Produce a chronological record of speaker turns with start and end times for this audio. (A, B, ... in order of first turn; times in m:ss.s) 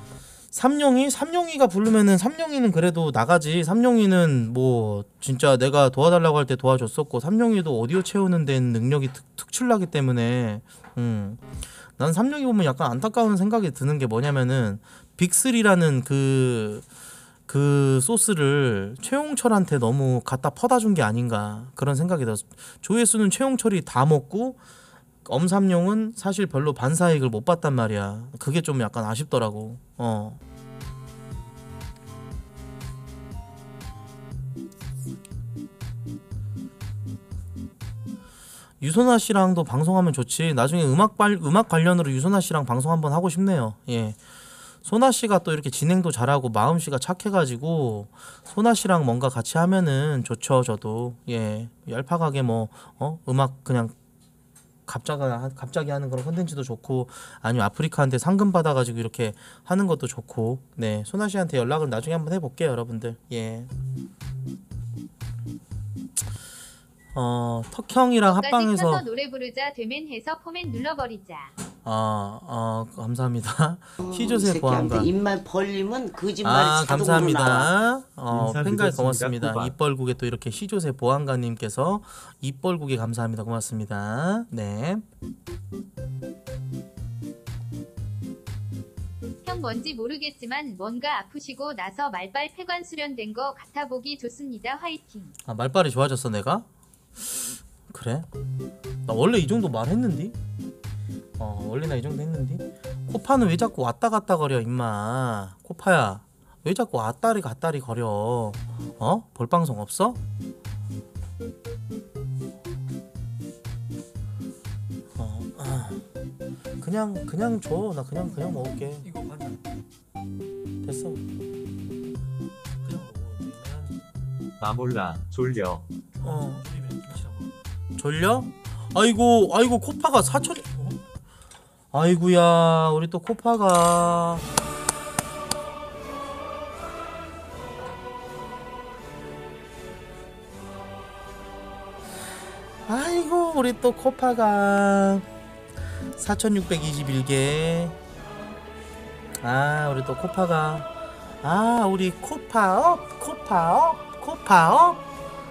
0:00.5-0:11.4 A
0:12.0-0:16.8 A
0:17.5-0:24.6 A
0:25.2-0:30.4 A
0:38.8-0:44.2 A
0:44.8-0:53.9 A
0:54.9-1:03.7 A
1:07.1-1:09.0 A
1:08.3-1:11.5 B
1:11.8-1:15.1 A
1:14.0-1:17.7 C
1:16.4-1:25.0 A
1:18.3-1:19.7 D
1:29.4-1:35.3 B
1:35.5-1:36.6 A
1:37.9-1:38.3 A
1:39.0-1:40.4 A
1:41.4-1:50.2 A
1:55.2-1:56.0 A
1:56.8-1:59.1 A
1:59.0-1:59.7 E
2:00.8-2:01.2 A
2:02.8-2:04.1 E
2:04.6-2:05.8 D
2:06.2-2:07.5 E
2:06.2-2:06.6 A
2:08.0-2:10.7 A
2:11.9-2:14.5 A
2:22.9-2:25.3 A
2:26.2-2:28.0 A
2:29.4-2:30.9 A
2:31.4-2:35.0 A